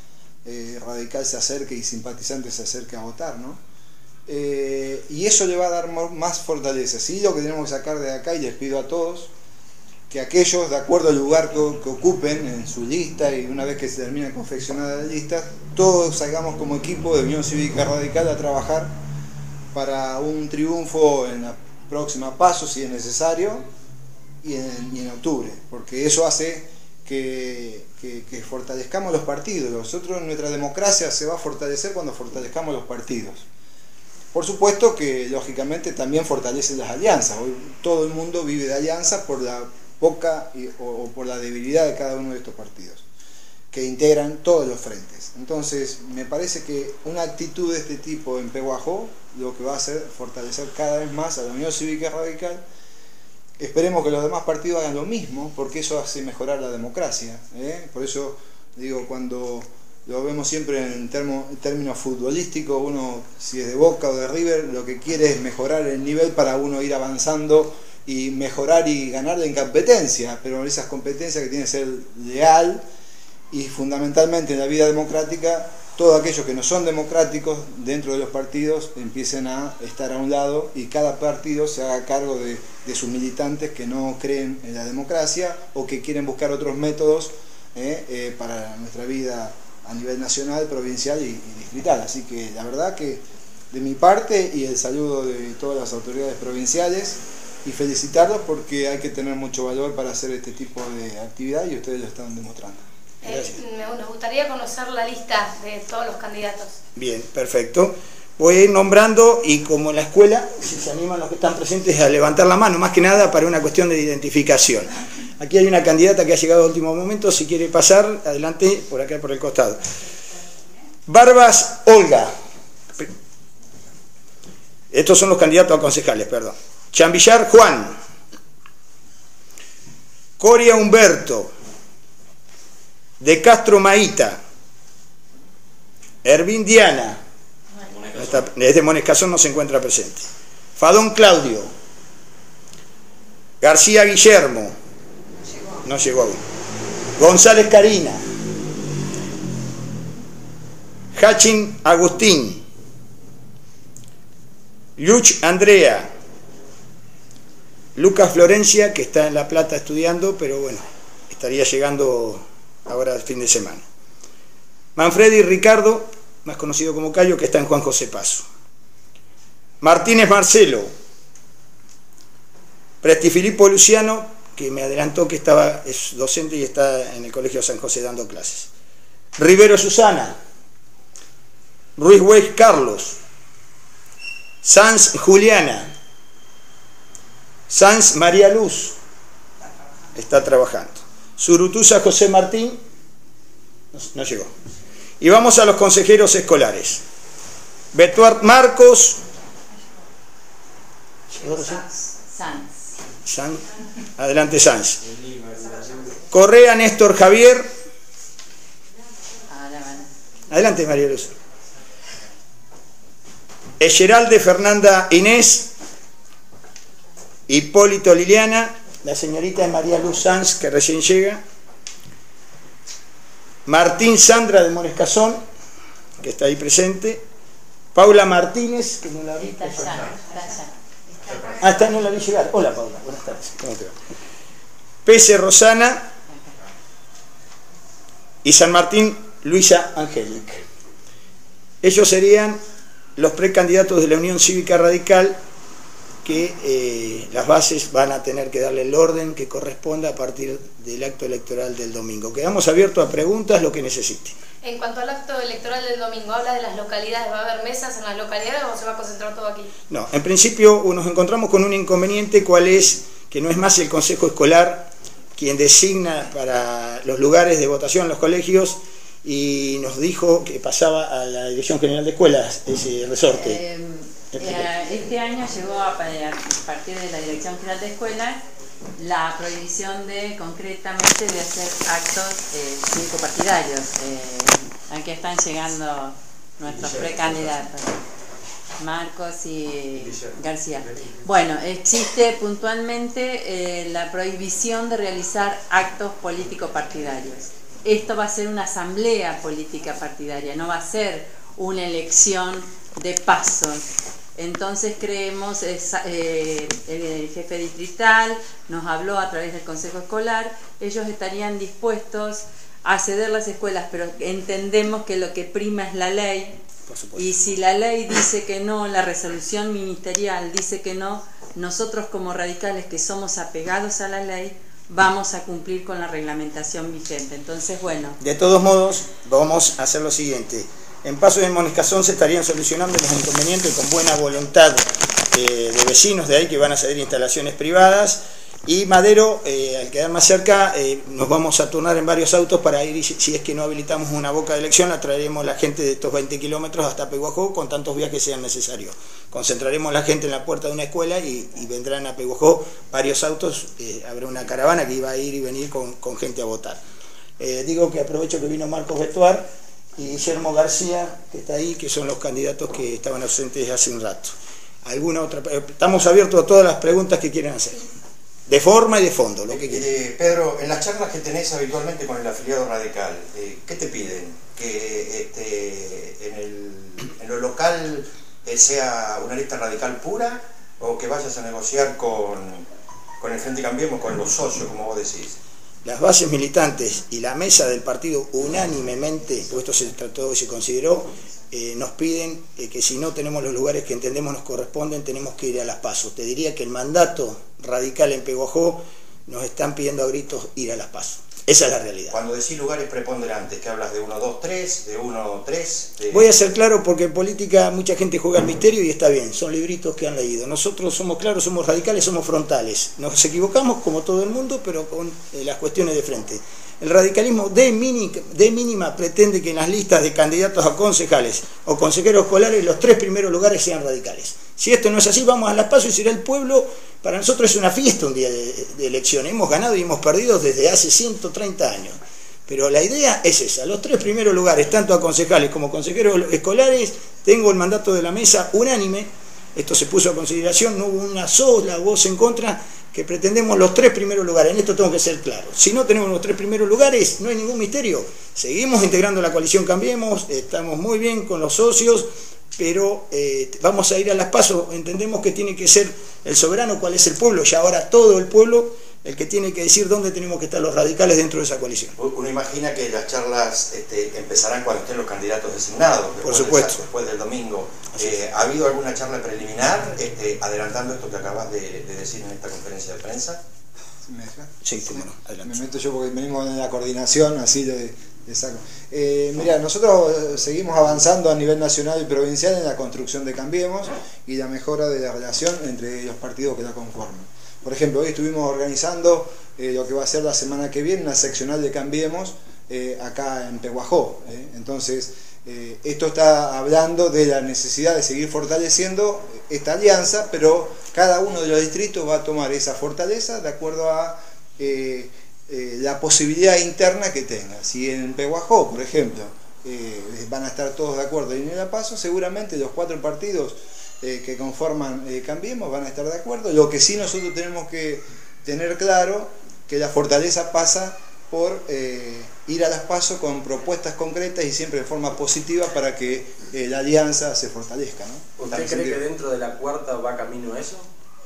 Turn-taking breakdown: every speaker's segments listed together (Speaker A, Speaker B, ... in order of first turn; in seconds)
Speaker A: 0.4-3.6, 4.3-9.3, 10.1-19.0, 19.7-23.7, 24.4-33.5, 34.3-43.0, 43.7-52.6, 53.6-72.8, 73.5-102.8, 474.0-529.0
Speaker B: 103.2-106.8, 254.6-259.7
Speaker C: 103.3-103.5, 107.0-119.8, 121.1-122.3, 124.9-127.9, 130.4-131.5, 133.2-134.4, 136.2-137.2, 138.1-141.7, 143.6-144.8, 145.8-146.4, 147.2-148.2, 151.1-152.6, 155.0-156.1, 157.9-163.9, 165.0-168.5, 169.8-170.9, 173.0-178.7, 179.4-180.3, 182.0-183.2, 184.6-185.9, 187.7-189.0, 190.1-192.8, 193.9-194.5, 195.2-197.0, 197.9-199.2, 201.3-201.8, 203.2-203.6, 204.2-205.0, 206.3-207.7, 210.5-211.3, 213.8-215.7, 217.5-221.4, 223.7-225.4, 226.2-227.2, 227.9-230.1, 231.6-234.0, 235.1-236.1, 238.4-240.6, 241.8-242.6, 243.2-245.4, 246.2-254.4, 259.9-273.6, 274.3-274.6, 316.9-317.3, 328.2-356.8, 357.4-367.9, 368.5-369.9, 385.9-402.1, 406.1-461.9, 466.2-466.9, 474.6-475.6
Speaker D: 201.6-202.9, 209.5-210.1, 229.4-230.7, 273.4-278.4, 279.0-288.0, 288.8-303.8, 304.4-316.6, 317.1-328.2
Speaker E: 286.7-287.5, 290.0-290.4, 528.4-530.9
Speaker F: 369.5-382.6, 383.2-385.4, 402.1-406.3, 462.0-473.4